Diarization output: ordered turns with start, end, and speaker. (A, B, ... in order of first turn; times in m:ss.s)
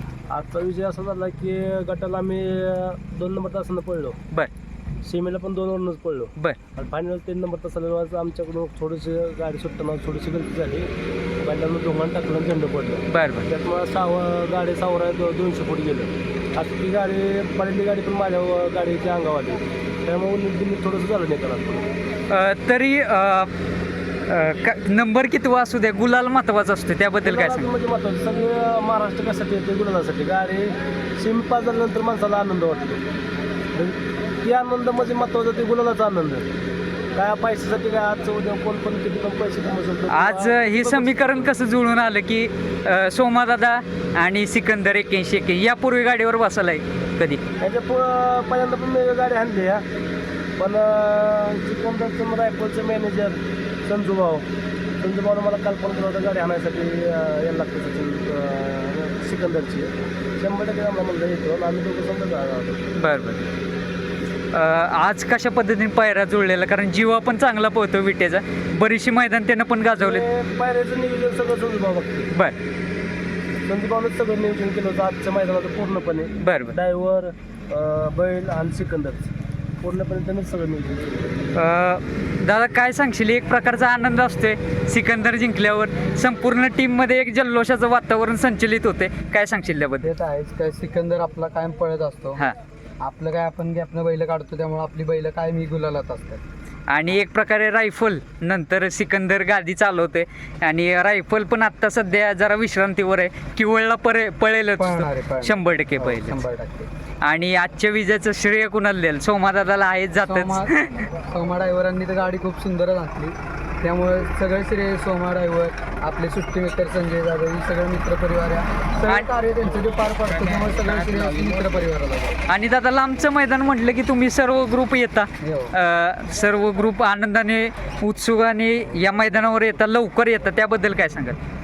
0:00.3-0:04.2 A
0:05.0-0:21.8 A
0:13.1-0:13.5 B
0:22.3-0:23.5 B
0:24.3-0:27.7 B
0:27.2-0:33.0 A
0:33.7-0:36.5 A
0:37.2-0:41.5 A
0:40.1-0:47.4 B
0:47.6-0:49.8 A
0:50.6-0:54.5 A
0:55.0-1:02.8 A
1:03.0-1:03.4 B
1:04.5-1:10.2 B
1:10.0-1:12.3 A
1:13.7-1:21.4 A
1:16.4-1:16.8 B
1:21.5-1:30.1 B
1:30.0-1:32.4 C
1:33.0-1:36.4 C
1:36.9-1:46.4 B
1:44.8-1:46.9 C
1:47.2-1:51.1 B
1:50.2-2:02.4 C
2:02.5-2:11.4 B
2:05.4-2:05.8 C